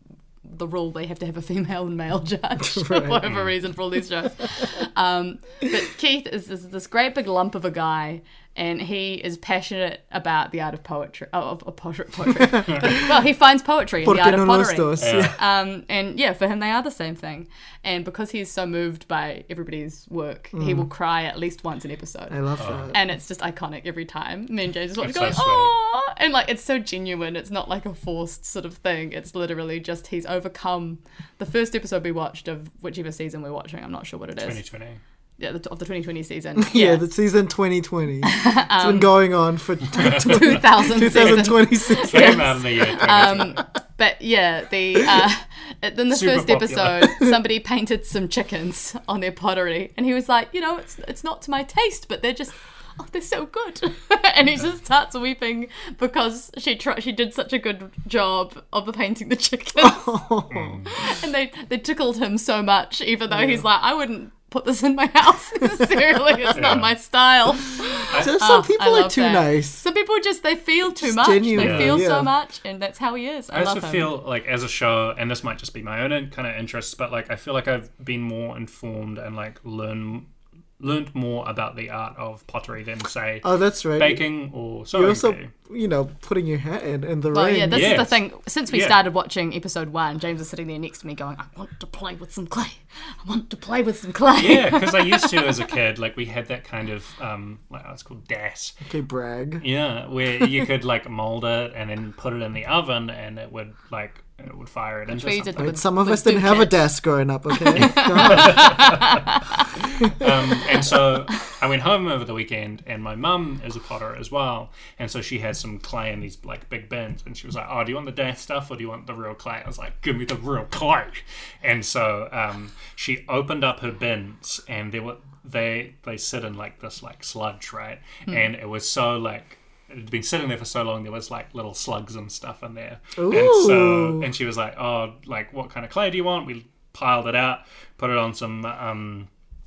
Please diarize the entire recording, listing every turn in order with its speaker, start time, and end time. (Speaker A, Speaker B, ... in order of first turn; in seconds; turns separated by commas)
Speaker A: 0.5-22.4, Speaker B: 2.6-3.2, Speaker B: 14.0-15.4, Speaker C: 15.0-15.4, Speaker B: 20.5-20.9, Speaker B: 22.3-23.0, Speaker C: 22.6-22.9, Speaker A: 22.9-34.6, Speaker C: 25.0-25.7, Speaker C: 34.4-35.0, Speaker A: 35.4-37.1, Speaker B: 36.6-42.6, Speaker A: 38.2-39.1, Speaker C: 40.0-40.6, Speaker A: 40.0-60.1, Speaker C: 42.0-43.6, Speaker C: 46.1-47.2, Speaker B: 59.8-60.8, Speaker C: 60.5-60.9, Speaker A: 60.9-74.1, Speaker B: 63.3-63.6, Speaker C: 66.5-66.9, Speaker C: 68.1-68.3, Speaker B: 68.1-69.8, Speaker B: 71.0-72.3, Speaker C: 71.6-72.0, Speaker C: 73.5-80.3, Speaker C: 80.8-85.5, Speaker B: 83.4-84.2, Speaker B: 84.9-88.0, Speaker A: 87.3-95.6, Speaker C: 87.7-89.0, Speaker C: 94.4-98.8, Speaker B: 98.9-99.6, Speaker C: 99.6-105.7, Speaker A: 105.1-106.8, Speaker B: 105.6-108.9, Speaker A: 107.5-109.7, Speaker C: 107.7-109.2, Speaker B: 109.8-110.3, Speaker C: 109.9-139.3, Speaker B: 133.2-134.3